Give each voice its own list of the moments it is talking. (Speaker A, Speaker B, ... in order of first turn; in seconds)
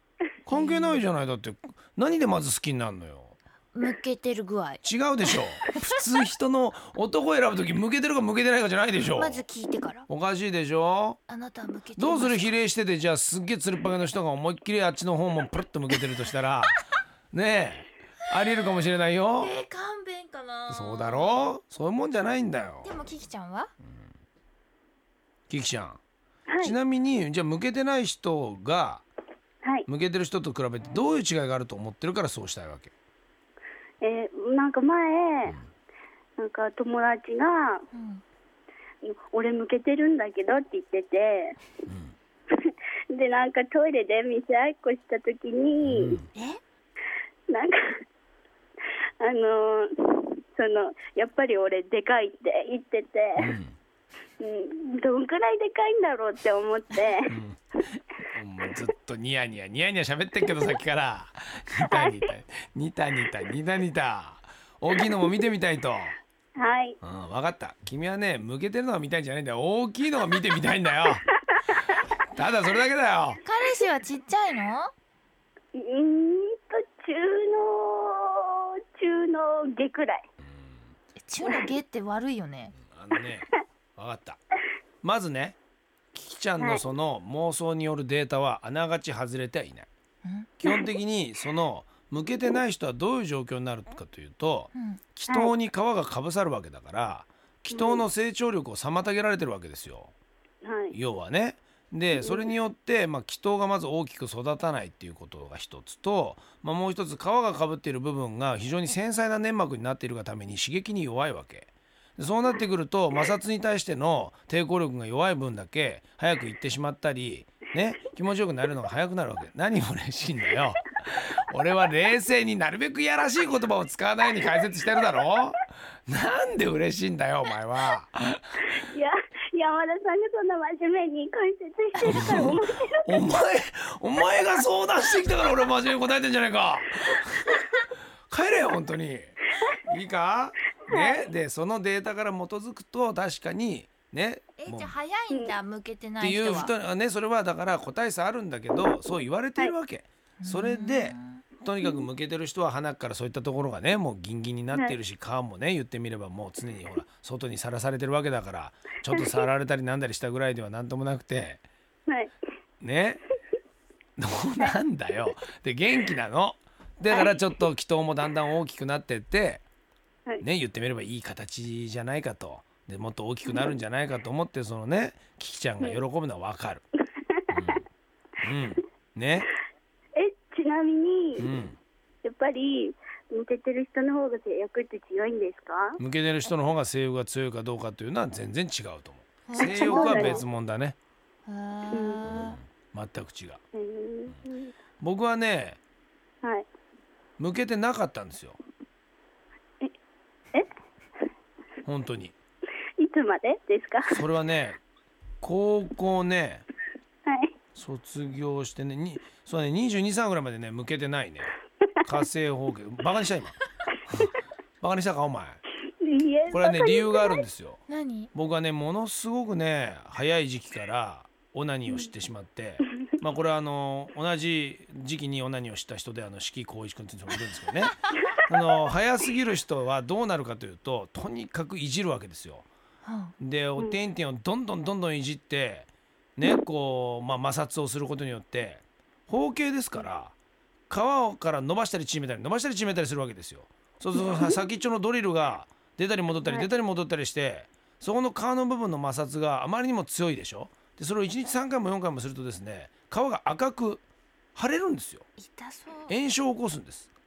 Speaker A: 0.5-3.4, 4.8-9.4, 10.1-11.2, 12.0-19.6, 20.7-23.0, 25.5-26.0, 26.6-29.1, 29.9-32.9, 41.9-42.1, 45.8-46.3, 53.4-53.8, 57.3-57.6, 58.3-66.2, 67.0-71.2, 72.3-73.4, 80.4-80.9, 82.8-84.4, 85.0-85.6, 86.1-89.9, 90.6-100.1, 100.9-128.6, 132.1-144.9, 146.2-161.6, 162.8-163.2, 164.2-169.6, 170.4-176.8, 177.5-177.8, 178.4-179.5, 181.4-181.8, 186.0-191.0, 192.3-193.6, 195.0-195.8, 197.4-198.6, 201.8-202.3, 204.1-204.8, 205.4-206.7, 207.8-211.5, 212.0-213.6, 214.1-215.6, 216.5-217.8, 218.3-232.7, 233.4-240.3, 240.9-254.0, 254.6-255.3, 256.1-257.1
Speaker B: 0.5-1.0, 3.7-6.0, 9.1-10.1, 11.3-12.5, 19.4-21.4, 22.8-23.7, 37.9-38.2, 46.3-46.6, 73.4-74.9, 81.2-82.8, 90.2-90.5, 94.8-95.0, 144.6-146.7, 150.4-151.4, 189.5-190.4, 191.5-192.6, 217.9-218.3, 233.1-233.3, 255.4-256.1
Speaker C: 26.5-26.8, 34.0-35.6, 36.4-37.9, 39.0-41.6, 42.5-46.2, 47.5-48.0, 49.2-53.5, 54.4-57.3, 66.6-67.0, 75.7-80.2, 86.6-86.8, 95.3-95.5, 97.7-98.0, 100.6-101.0, 102.2-102.5, 128.8-133.1, 140.9-141.3, 145.3-145.6, 159.1-159.4, 162.1-162.3, 173.5-173.7, 180.2-181.5, 182.2-186.0, 189.6-190.4, 191.9-192.3, 193.7-194.7, 203.0-204.2, 207.3-207.5, 216.0-217.4